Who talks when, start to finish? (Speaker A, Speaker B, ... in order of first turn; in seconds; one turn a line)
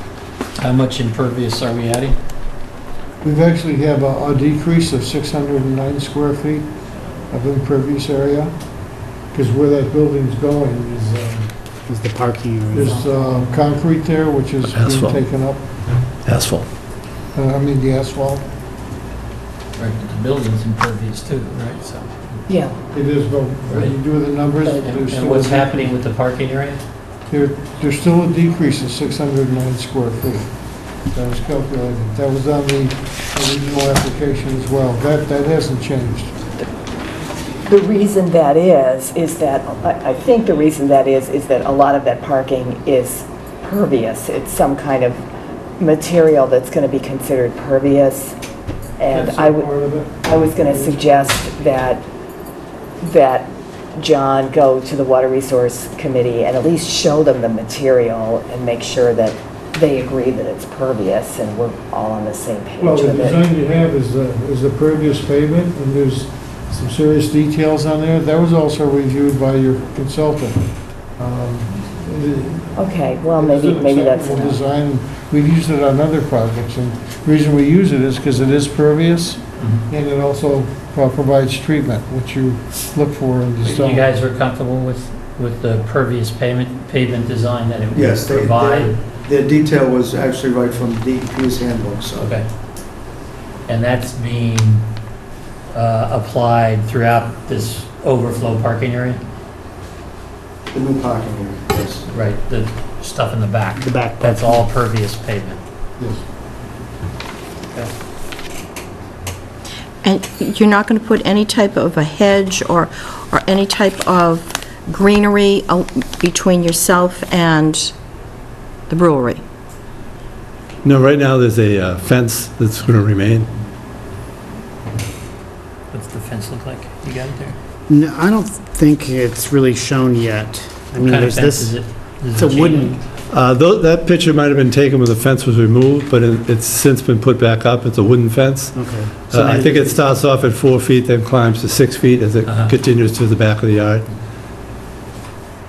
Speaker A: 0.6-2.2
Speaker B: 3.2-6.7
Speaker B: 7.3-8.5
Speaker B: 9.3-11.5
Speaker C: 11.9-13.0
Speaker B: 12.7-15.6
Speaker A: 13.2-13.5
Speaker D: 14.7-15.2
Speaker D: 16.2-16.7
Speaker B: 17.3-18.4
Speaker A: 19.8-22.4
Speaker E: 22.5-22.8
Speaker B: 22.9-25.9
Speaker A: 24.6-26.8
Speaker B: 27.3-30.5
Speaker B: 31.0-36.3
Speaker E: 37.6-45.2
Speaker E: 45.8-48.4
Speaker E: 49.0-49.7
Speaker B: 49.0-51.5
Speaker E: 50.2-52.0
Speaker E: 53.0-63.4
Speaker B: 62.8-84.1
Speaker E: 72.8-74.6
Speaker A: 79.6-79.8
Speaker A: 83.6-89.0
Speaker F: 87.9-92.4
Speaker A: 92.2-92.5
Speaker A: 93.7-94.8
Speaker A: 95.7-99.2
Speaker F: 100.7-102.0
Speaker A: 102.1-105.6
Speaker C: 103.8-104.7
Speaker G: 110.0-117.9
Speaker G: 118.9-119.4
Speaker D: 120.8-123.5
Speaker A: 125.9-127.6
Speaker C: 127.9-131.8
Speaker A: 131.0-133.0
Speaker C: 132.3-133.0
Speaker D: 133.3-144.0
Speaker C: 138.7-140.1
Speaker A: 142.5-142.7